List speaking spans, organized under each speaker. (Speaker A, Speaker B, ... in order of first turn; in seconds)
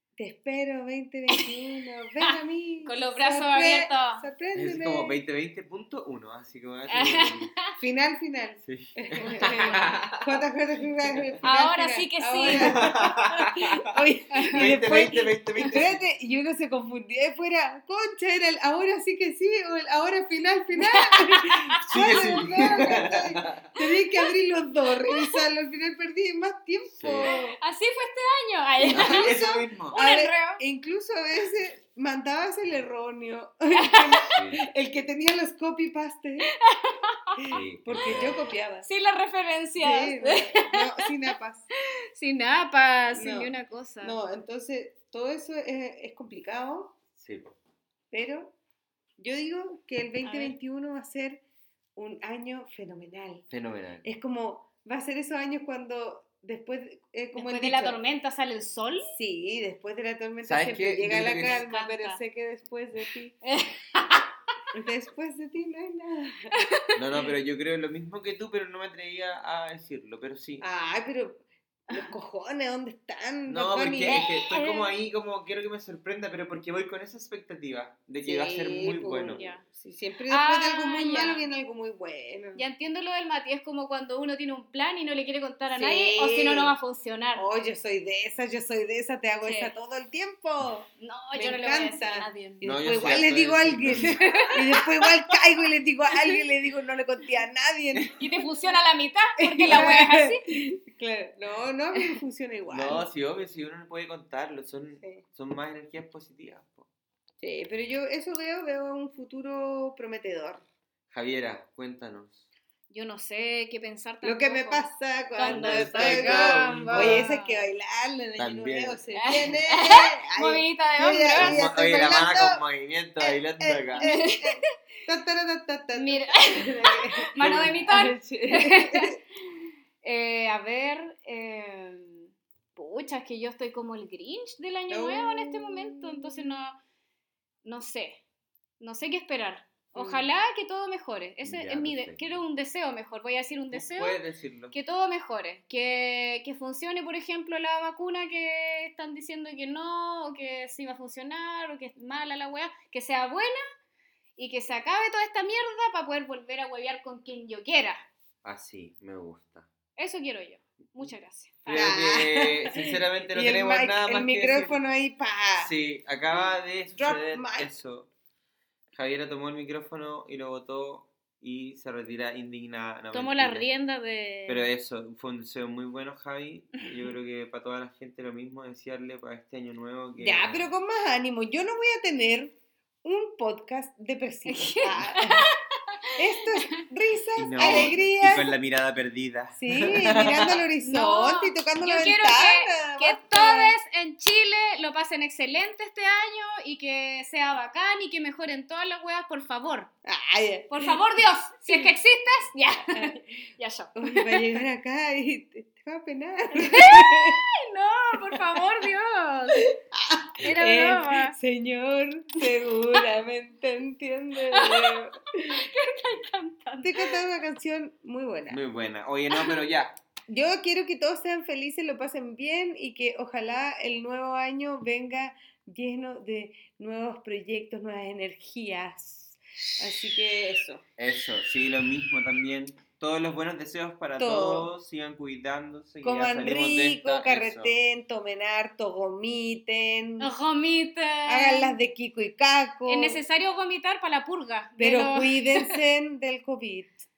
Speaker A: 0.2-5.2, 7.8-27.6, 28.8-36.5, 37.5-38.9, 39.8-41.7, 43.1-47.0, 48.1-48.5, 49.2-51.4, 52.0-53.4, 54.0-58.0, 59.1-63.3, 64.7-66.6, 70.6-74.2, 78.2-82.6, 85.7-86.7, 87.3-98.2, 99.4-103.0, 107.4-110.6, 114.2-122.6, 123.2-127.3, 127.8-129.2, 134.9-136.5, 139.9-140.3, 161.7-165.7, 166.9-167.7, 180.2-185.4, 186.2-188.5, 189.5-193.7, 200.1-201.0, 202.8-207.4, 208.3-208.8, 209.6-215.5, 216.8-218.6, 220.3-230.8, 234.2-234.7, 236.0-240.3, 241.2-243.2, 244.8-247.1
Speaker B: 2.8-4.2, 6.9-7.7, 9.2-9.9, 11.4-12.8, 14.3-14.7, 20.8-22.7, 23.8-24.1, 25.1-25.4, 27.2-29.4, 29.9-30.6, 33.7-34.3, 36.5-37.6, 38.8-41.0, 42.1-44.2, 50.2-50.5, 57.4-59.1, 61.4-62.2, 63.4-64.3, 66.6-66.9, 74.0-74.9, 79.3-79.6, 80.3-81.4, 82.5-87.5, 89.4-89.7, 91.0-92.6, 94.0-94.8, 98.2-100.4, 112.9-117.7, 119.1-121.6, 124.0-124.6, 125.9-129.1, 130.0-136.8, 137.6-138.2, 138.8-144.2, 144.7-153.6, 154.4-158.0, 160.0-161.9, 173.1-174.6, 184.5-185.4, 187.6-187.9, 190.8-199.9, 200.7-204.4, 206.5-209.7, 210.4-211.3, 214.5-217.1, 219.3-219.6, 240.2-241.7, 242.9-245.8
Speaker C: 4.5-7.5, 8.6-10.4, 11.0-11.4, 12.4-13.8, 14.5-16.0, 21.9-23.7, 26.9-27.3, 28.9-30.0, 34.3-34.6, 37.5-38.5, 47.2-47.5, 53.5-54.0, 60.4-61.6, 66.9-70.6, 73.5-79.4, 92.6-94.2, 102.7-106.9, 111.1-112.5, 115.4-117.3, 118.4-119.0, 121.3-124.1, 127.4-127.8, 141.4-142.4, 143.7-144.7, 158.4-159.7, 161.6-164.8, 165.6-168.1, 168.9-173.7, 174.5-180.7, 187.3-190.6, 218.5-219.9, 231.0-237.8